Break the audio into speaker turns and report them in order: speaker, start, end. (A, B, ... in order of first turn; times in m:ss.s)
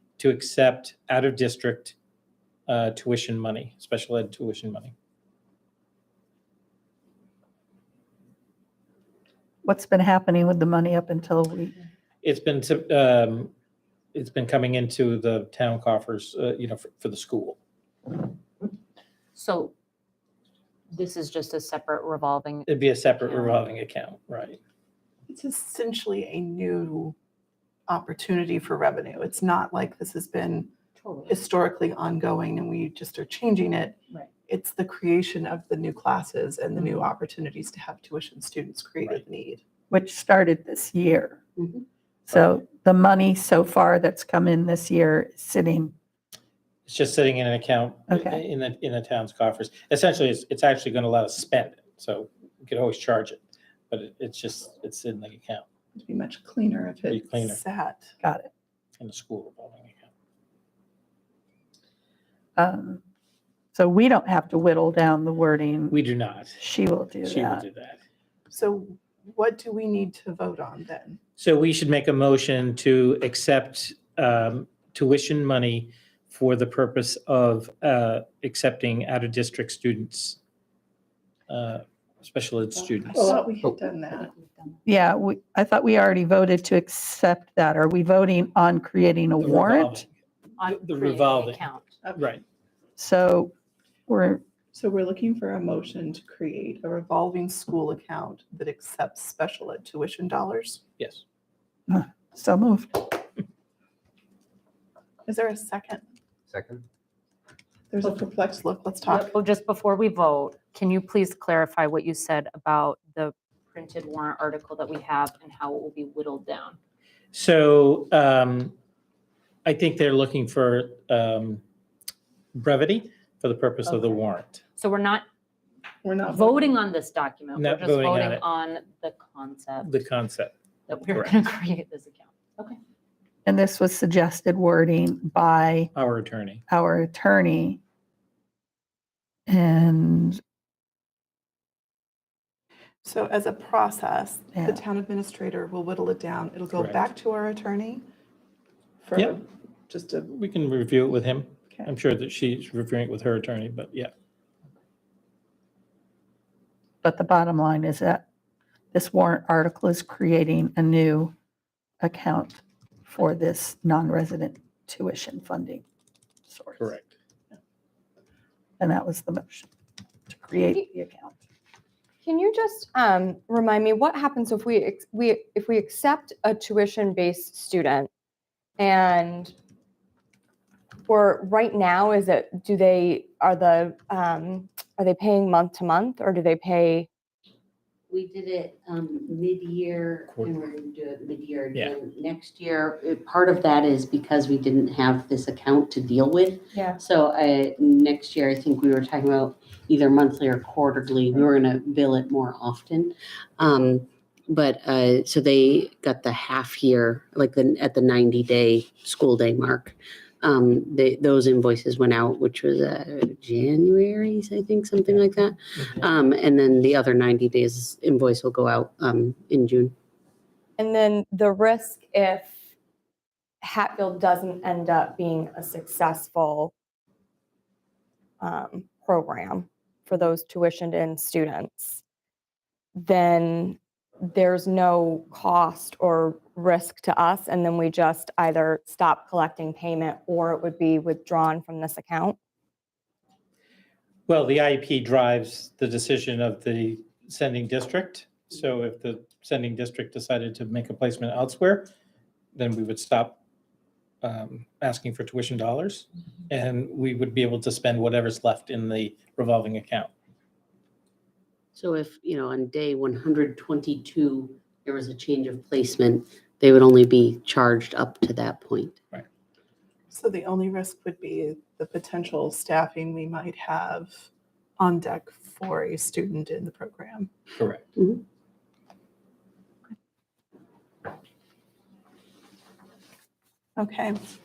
0:00.2-0:02.0 A
0:02.7-0:04.9 A
0:09.6-0:11.8 B
0:12.2-0:13.5 A
0:14.1-0:17.6 A
0:19.4-0:19.7 C
0:20.9-0:23.6 C
0:22.7-0:24.6 A
0:25.3-0:27.2 D
0:27.9-0:30.7 D
0:31.0-0:31.4 C
0:31.3-0:39.6 D
0:39.9-0:41.4 B
0:42.3-0:45.9 B
0:46.9-0:55.6 A
0:48.1-0:48.4 B
0:56.0-0:58.1 D
0:57.1-0:57.6 A
0:58.2-0:58.5 B
0:59.0-1:00.1 A
1:02.6-1:03.0 B
1:03.7-1:06.0 B
1:05.9-1:06.6 A
1:06.6-1:07.6 B
1:07.2-1:08.0 A
1:08.5-1:11.2 D
1:11.4-1:20.4 A
1:21.5-1:23.4 A
1:23.1-1:24.3 D
1:24.9-1:30.1 B
1:29.4-1:30.1 A
1:30.6-1:32.0 C
1:30.6-1:31.6 A
1:32.2-1:32.4 A
1:33.0-1:33.5 B
1:34.1-1:34.4 B
1:34.7-1:40.8 D
1:41.0-1:41.2 A
1:41.9-1:43.2 B
1:45.3-1:46.0 D
1:47.9-1:49.3 D
1:49.1-1:56.8 C
1:57.3-1:58.8 A
1:59.6-2:01.6 A
2:02.6-2:04.6 A
2:04.8-2:05.2 C
2:06.0-2:06.7 D
2:06.3-2:10.0 C
2:07.6-2:08.4 A
2:09.8-2:10.5 A
2:10.9-2:12.8 C
2:13.5-2:15.9 B
2:16.0-2:16.6 A
2:16.7-2:17.8 B
2:19.5-2:20.4 B
2:23.0-2:28.0 D
2:24.6-2:24.8 B
2:26.7-2:27.0 A
2:29.0-2:30.3 D
2:30.3-2:34.1 A
2:37.0-2:38.2 B
2:38.9-2:41.3 B
2:42.0-2:45.8 B
2:46.5-2:46.9 B
2:46.8-2:47.1 A
2:48.8-2:49.7 B
2:50.3-2:51.4 B
2:52.2-2:58.1 E
2:58.8-2:59.5 E
3:01.1-3:07.1 E
3:08.1-3:40.0 F
3:40.8-3:42.6 E
3:43.6-3:46.7 E
3:48.4-3:52.0 E
3:53.0-3:53.8 E
3:54.3-4:02.4 E
4:04.3-4:11.9 A
4:12.6-4:13.4 A
4:14.2-4:20.1 A
4:21.7-4:29.0 F
4:30.1-4:34.2 D
4:34.8-4:37.3 D
4:37.6-4:37.8 A
4:38.0-4:38.2 F
4:43.8-4:44.2 D